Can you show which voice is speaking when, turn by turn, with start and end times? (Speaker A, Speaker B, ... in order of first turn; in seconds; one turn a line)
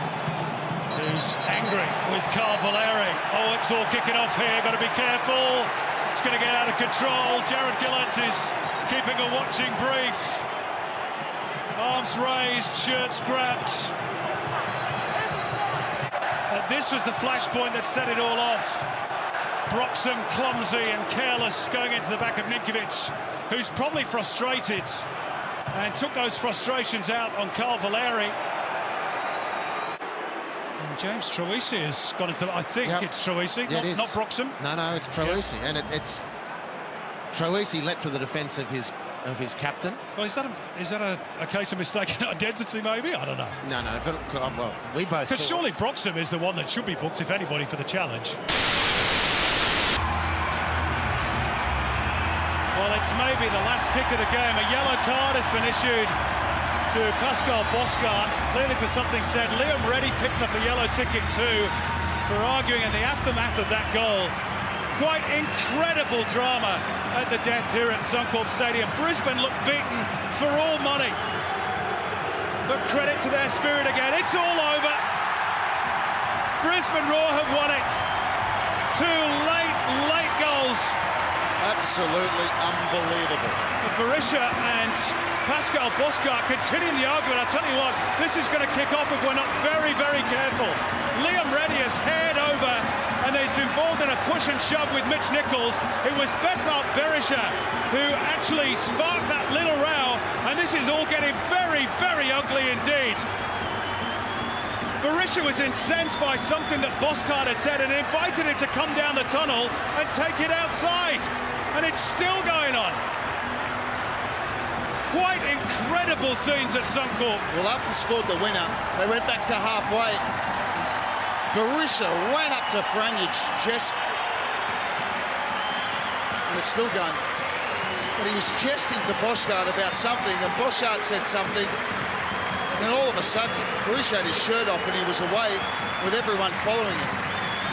Speaker A: 0.9-10.5
Speaker A: 11.7-13.9
Speaker A: 16.5-18.9
Speaker A: 19.7-25.1
Speaker A: 25.7-28.4
Speaker A: 30.8-34.5
Speaker B: 33.6-36.2
Speaker B: 37.3-40.0
Speaker A: 40.1-43.5
Speaker B: 43.6-45.6
Speaker A: 45.3-48.4
Speaker A: 52.7-56.2
Speaker A: 56.9-64.3
Speaker A: 64.9-71.2
Speaker A: 72.6-75.0
Speaker A: 76.6-78.0
Speaker A: 78.9-81.0
Speaker C: 81.6-83.6
Speaker A: 83.8-103.3
Speaker A: 105.0-113.0
Speaker A: 115.0-117.4
Speaker C: 117.5-120.2
Speaker C: 121.5-124.0
Speaker C: 126.5-127.2
Speaker C: 128.2-131.7
Speaker C: 132.8-137.1